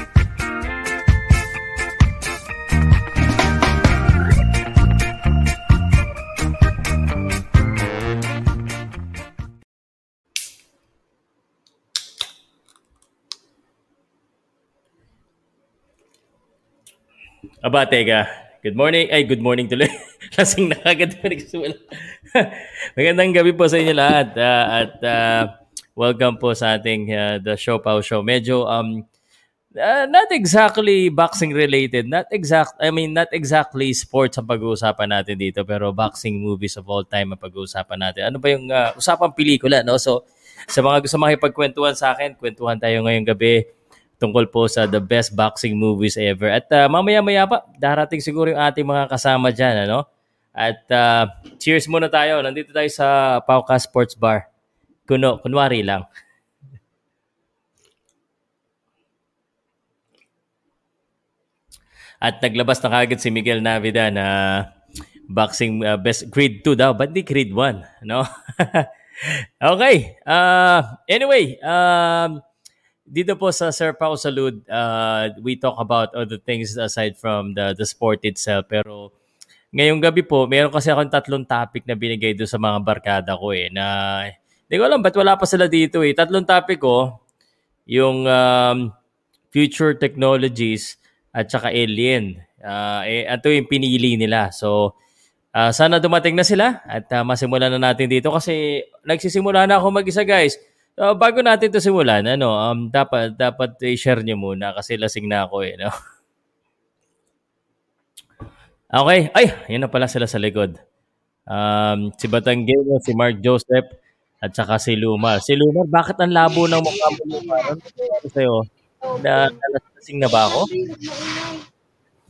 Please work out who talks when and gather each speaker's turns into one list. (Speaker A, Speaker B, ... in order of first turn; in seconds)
Speaker A: 17.6-29.0, 29.8-40.2, 40.7-43.6, 44.2-50.0, 50.6-54.4, 55.1-56.0, 62.2-64.7, 65.3-68.9, 69.6-72.4, 73.1-79.1, 79.8-87.0, 87.9-88.9, 89.5-94.9, 95.6-105.9, 108.9-110.7, 111.5-113.9, 114.4-120.7